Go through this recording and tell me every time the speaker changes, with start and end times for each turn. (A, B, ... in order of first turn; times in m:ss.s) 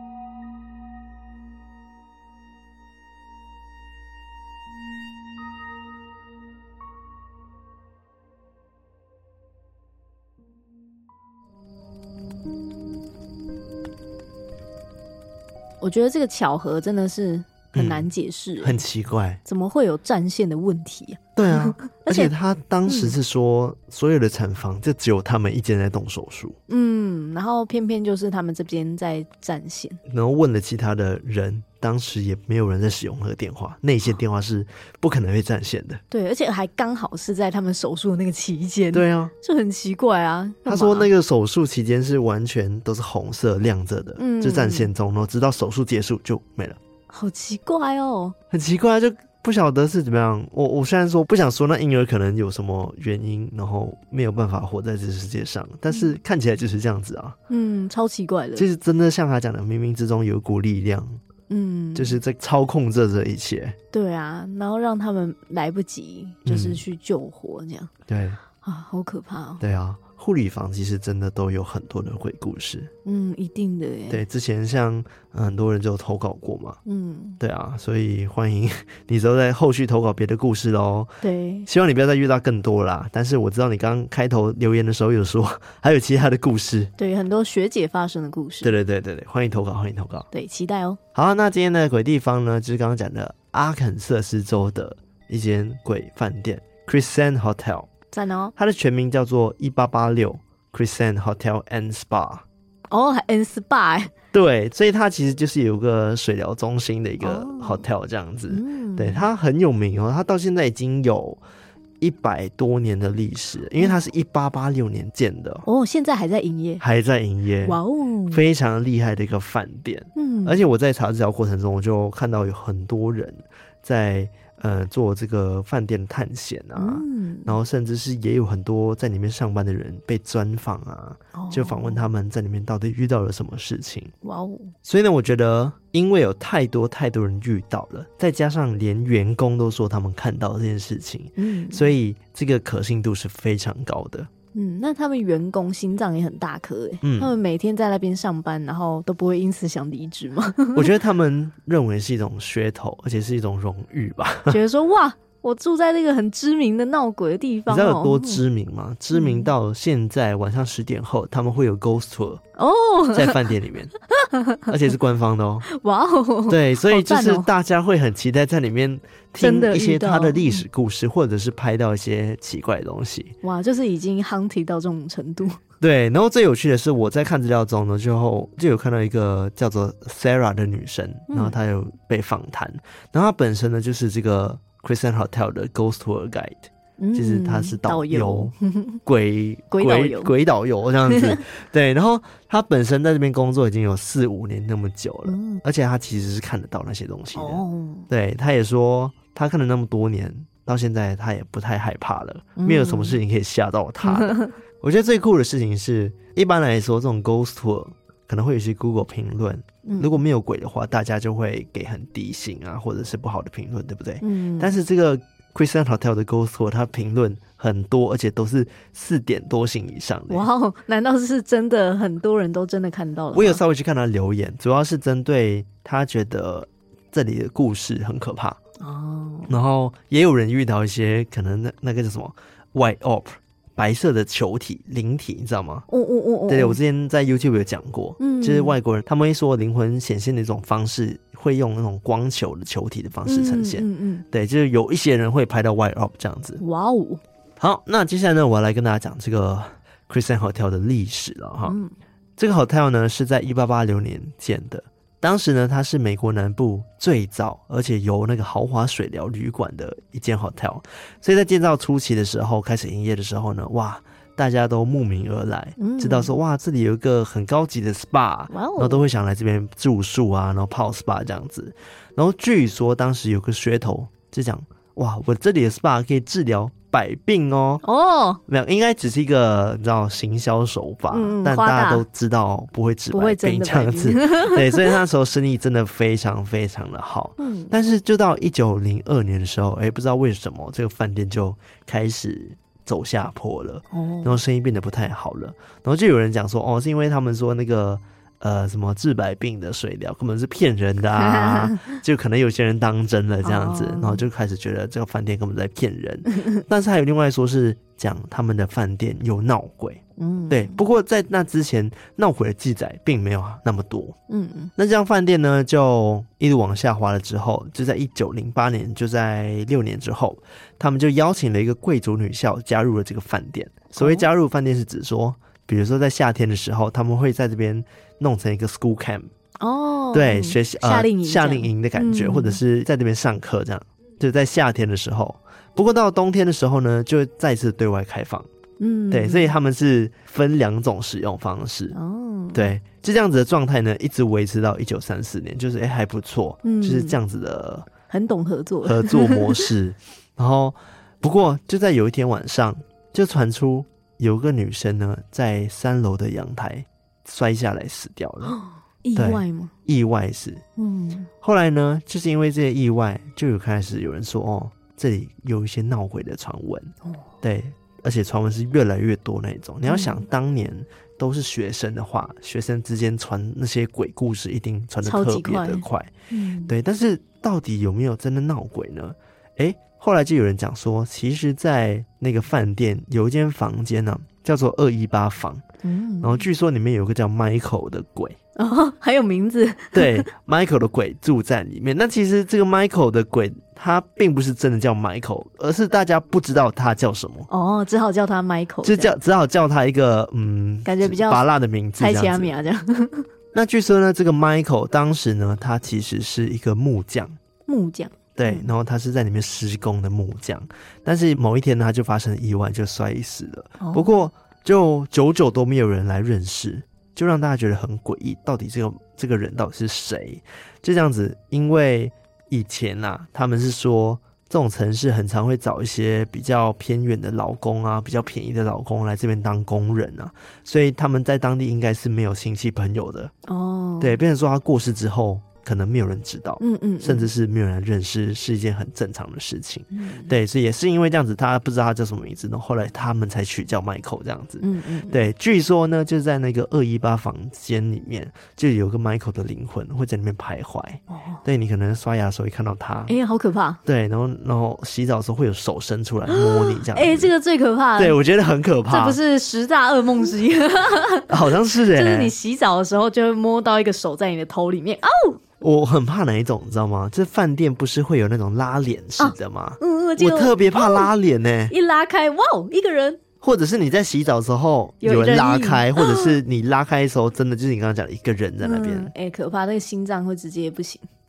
0:15.8-0:18.8 A
0:17.7-0:19.4 B
0:19.4-0:22.3 A
0:21.4-0:26.6 B
0:22.9-0:23.2 A
0:26.7-0:30.0 A
0:30.1-0:36.0 B
0:36.1-0:41.1 A
0:38.9-0:39.3 B
0:40.6-0:46.8 B
0:44.2-0:44.9 A
0:47.1-0:48.3 A
0:48.5-0:57.4 B
0:57.5-0:58.7 A
0:58.6-1:01.2 B
1:01.5-1:02.2 A
1:01.9-1:03.8 B
1:03.9-1:07.9 A
1:06.4-1:06.8 B
1:08.1-1:08.4 B
1:08.6-1:09.6 A
1:09.6-1:12.9 B
1:13.0-1:14.2 A
1:14.1-1:16.8 B
1:16.8-1:17.4 A
1:17.4-1:21.1 B
1:21.2-1:21.7 A
1:21.7-1:26.9 B
1:27.0-1:28.7 A
1:28.6-1:30.3 B
1:30.3-1:31.0 A
1:31.1-1:37.9 B
1:38.1-1:38.5 A
1:38.6-1:42.4 B
1:42.9-1:44.1 A
1:44.3-1:51.4 B
1:47.2-1:47.8 A
1:48.5-1:49.3 A
1:52.0-1:55.6 B
1:55.6-1:56.8 A
1:56.8-1:57.8 B
1:57.6-1:58.4 A
1:58.3-2:14.1 B
2:00.2-2:00.6 A
2:06.8-2:07.6 A
2:11.3-2:12.1 A
2:14.2-2:14.7 A
2:14.8-2:24.3 B
2:21.4-2:21.9 A
2:24.5-2:30.9 A
2:27.0-2:27.3 B
2:30.7-2:34.6 B
2:34.5-2:38.4 A
2:37.7-2:42.4 B
2:39.1-2:39.5 A
2:42.6-2:43.4 A
2:43.1-2:43.9 B
2:44.2-2:44.6 A
2:44.7-2:45.6 B
2:45.7-2:47.5 A
2:46.5-2:53.3 B
2:49.4-2:50.6 A
2:53.4-2:55.6 A
2:55.8-3:08.5 B
3:01.3-3:01.6 A
3:07.0-3:09.0 A
3:09.0-3:40.5 B
3:09.7-3:10.3 A
3:11.1-3:11.4 A
3:15.2-3:15.6 A
3:17.3-3:18.1 A
3:22.6-3:23.2 A
3:24.0-3:24.5 A
3:29.8-3:30.2 A
3:34.2-3:34.7 A
3:40.3-3:43.6 A
3:43.3-3:48.6 B
3:48.8-3:49.5 A
3:49.5-3:55.8 B
3:55.9-3:56.8 A
3:56.5-4:06.6 B
3:58.2-3:58.8 A
4:03.2-4:04.2 A
4:06.6-4:07.2 A
4:07.6-4:11.8 B
4:11.6-4:11.9 A
4:12.4-4:37.8 B
4:25.8-4:26.3 A
4:28.5-4:29.0 A
4:37.8-4:38.4 A
4:38.5-5:14.2 B
4:41.1-4:42.0 A
4:43.1-4:45.0 A
4:47.4-4:47.7 A
4:53.9-4:54.4 A
5:01.2-5:02.0 A
5:03.4-5:04.2 A
5:10.2-5:10.8 A
5:14.3-5:14.7 A
5:14.8-5:29.3 B
5:24.0-5:24.3 A
5:29.6-5:32.6 A
5:30.1-5:38.5 B
5:38.8-5:39.5 A
5:39.1-5:42.0 B
5:41.9-5:42.7 A
5:42.5-5:47.9 B
5:46.6-5:47.2 A
5:48.1-5:49.7 A
5:48.8-5:58.6 B
5:58.4-5:59.7 A
5:59.2-6:00.6 B
6:00.8-6:01.3 A
6:01.4-6:16.1 B
6:09.8-6:10.2 A
6:15.0-6:16.7 A
6:16.6-6:25.6 B
6:25.8-6:26.4 A
6:26.2-6:28.4 B
6:28.6-6:30.3 A
6:29.9-6:37.5 B
6:37.5-6:39.1 A
6:38.8-6:42.5 B
6:40.8-6:41.4 A
6:42.0-6:43.3 A
6:43.5-6:47.4 B
6:47.7-6:48.7 A
6:48.4-7:13.3 B
6:53.8-6:54.1 A
7:13.5-7:14.2 A
7:14.0-7:33.1 B
7:16.6-7:17.3 A
7:19.9-7:20.3 A
7:24.6-7:25.2 A
7:31.1-7:31.4 A
7:33.1-7:33.8 A
7:33.8-7:37.3 B
7:36.3-7:38.2 A
7:38.0-7:39.2 B
7:38.9-7:45.4 A
7:41.3-7:42.3 B
7:45.6-7:51.7 B
7:49.2-7:51.1 A
7:51.7-7:53.2 A
7:53.4-7:59.1 B
7:55.0-7:56.4 A
7:58.6-8:01.0 A